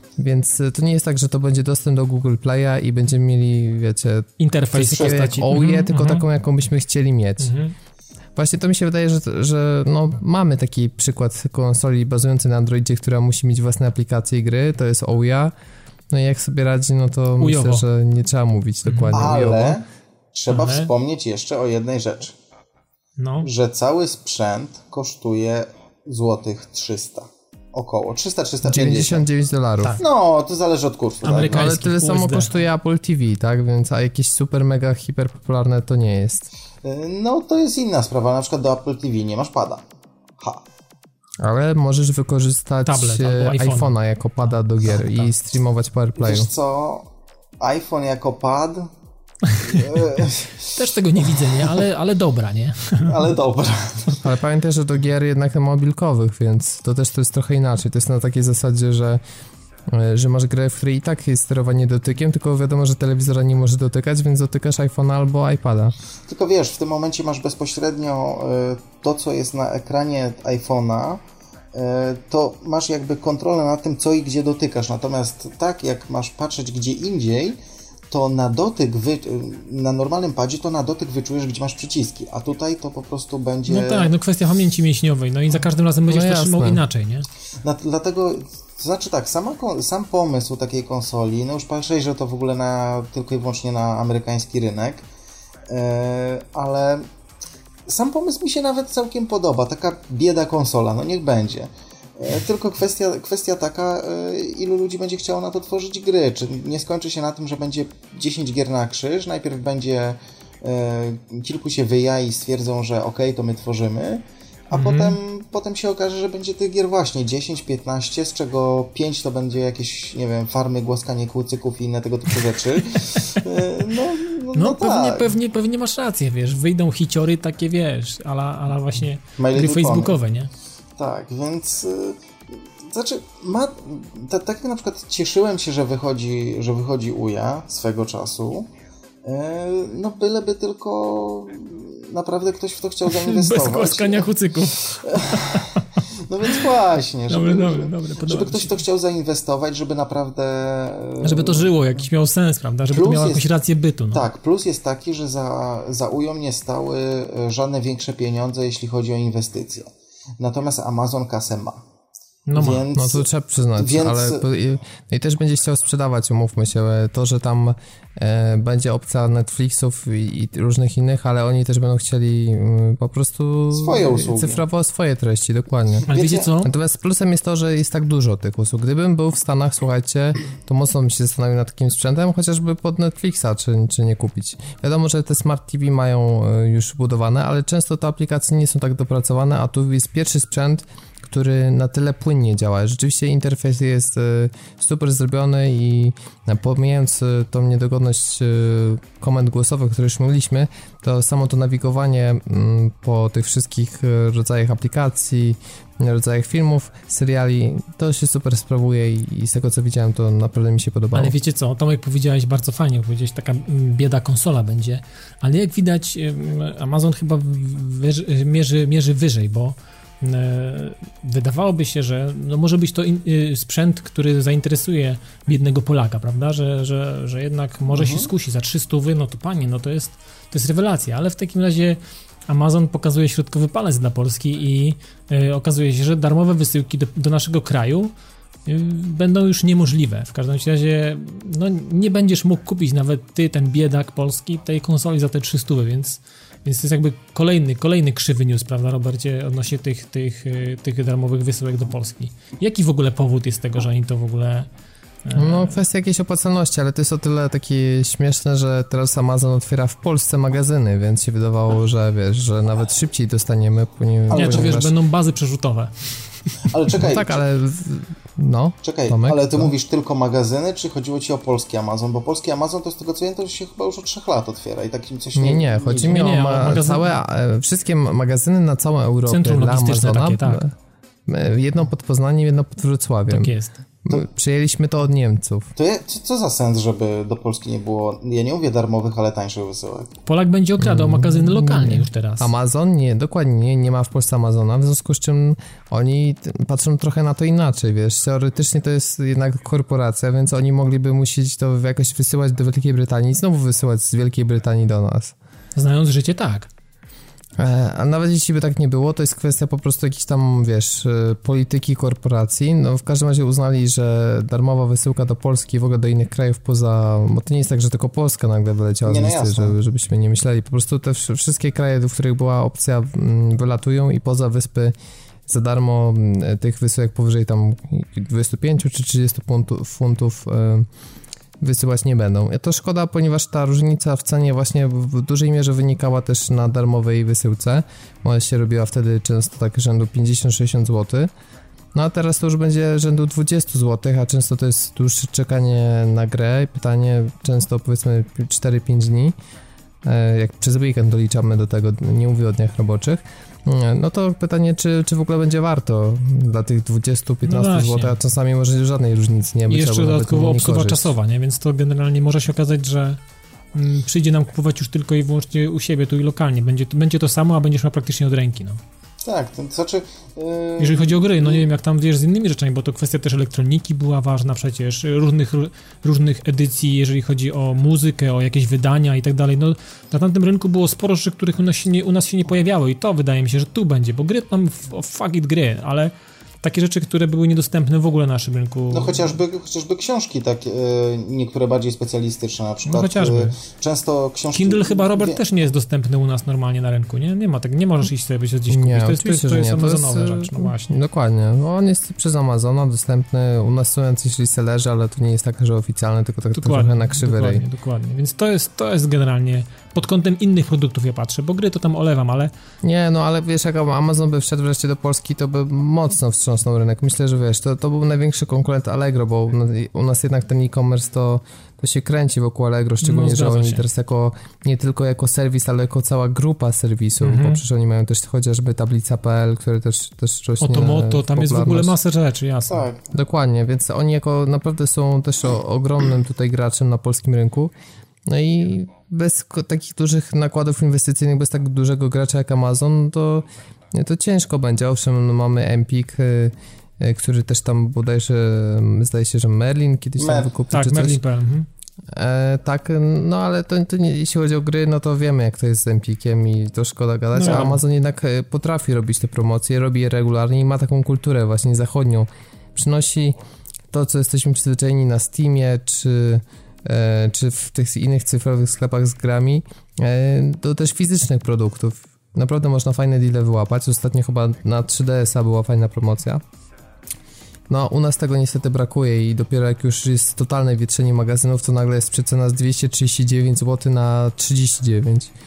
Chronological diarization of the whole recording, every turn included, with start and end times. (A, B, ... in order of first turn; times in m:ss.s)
0:00.2-0:07.5 A
0:04.4-0:06.2 B
0:04.9-0:05.3 C
0:07.4-0:07.7 B
0:08.4-0:15.5 A
0:16.1-0:19.8 A
0:17.4-0:17.8 B
0:18.8-0:19.1 B
0:19.1-0:22.3 C
0:20.5-0:20.9 B
0:23.2-0:23.5 B
0:23.4-0:29.2 C
0:28.6-0:30.0 A
0:30.0-0:31.7 C
0:31.2-0:32.5 B
0:31.5-0:36.5 A
0:36.8-0:39.8 C
0:40.4-0:40.6 C
0:41.4-0:46.5 A
0:42.8-0:43.9 B
0:44.9-0:45.2 B
0:46.2-0:47.0 C
0:47.6-0:48.9 C
0:49.4-0:50.0 B
0:49.6-0:51.8 C
0:50.6-0:53.1 B
0:53.0-0:54.2 C
0:54.2-0:59.2 A
0:59.9-1:05.9 A
1:06.3-1:17.6 C
1:18.1-1:24.1 C
1:23.7-1:27.2 B
1:26.1-1:26.8 A
1:27.6-1:35.0 C
1:35.7-1:37.1 C
1:37.9-2:05.3 C
1:54.7-1:55.2 B
2:03.0-2:03.4 B
2:04.5-2:10.5 B
2:09.4-2:10.2 C
2:11.0-2:18.7 C
2:19.2-2:31.7 C
2:23.1-2:26.6 B
2:27.3-2:28.7 B
2:31.2-2:34.2 B
2:32.9-2:33.5 C
2:34.1-2:41.8 C
2:42.5-2:42.8 B
2:42.5-2:44.4 C
2:42.9-2:56.1 A
2:53.7-2:54.6 C
2:56.1-2:56.7 B
2:56.1-2:56.5 C
2:56.6-3:31.3 A
3:31.1-3:58.1 B
3:47.9-3:48.3 C
3:58.6-4:14.7 B
4:15.2-4:15.7 B
4:15.3-4:24.9 A
4:24.3-4:26.3 B
4:24.3-4:24.6 C
4:26.7-4:27.4 C
4:26.9-4:29.7 A
4:28.8-4:36.3 C
4:35.4-4:40.7 A
4:36.0-4:37.1 B
4:39.3-4:40.6 B
4:41.2-4:43.5 A
4:43.3-4:43.8 B
4:44.0-4:45.7 A
4:45.8-4:50.1 C
4:50.2-4:52.5 B
4:50.8-5:05.3 A
5:05.8-5:06.7 B
5:07.6-5:24.9 A
5:19.0-5:19.8 C
5:25.5-5:30.9 A
5:31.6-5:41.3 A
5:41.9-5:49.3 A
5:50.0-6:01.1 A
5:57.4-5:58.2 B
5:59.7-6:03.2 B
6:03.7-6:08.8 B
6:09.2-6:11.6 C
6:10.8-6:29.4 B
6:28.9-6:35.4 C
6:32.9-6:33.6 B
6:34.5-6:40.9 B
6:38.7-6:47.6 A
6:46.5-6:52.5 B
6:52.8-7:11.9 A
7:03.0-7:03.8 B
7:07.2-7:07.6 B
7:10.6-7:12.8 B
7:12.7-7:13.1 C
7:13.1-7:17.7 A
7:18.3-7:31.2 A
7:30.2-7:30.5 C
7:30.7-7:31.7 B
7:32.1-7:43.4 A
7:37.3-7:37.8 B
7:43.9-7:56.4 A
7:57.7-8:05.3 A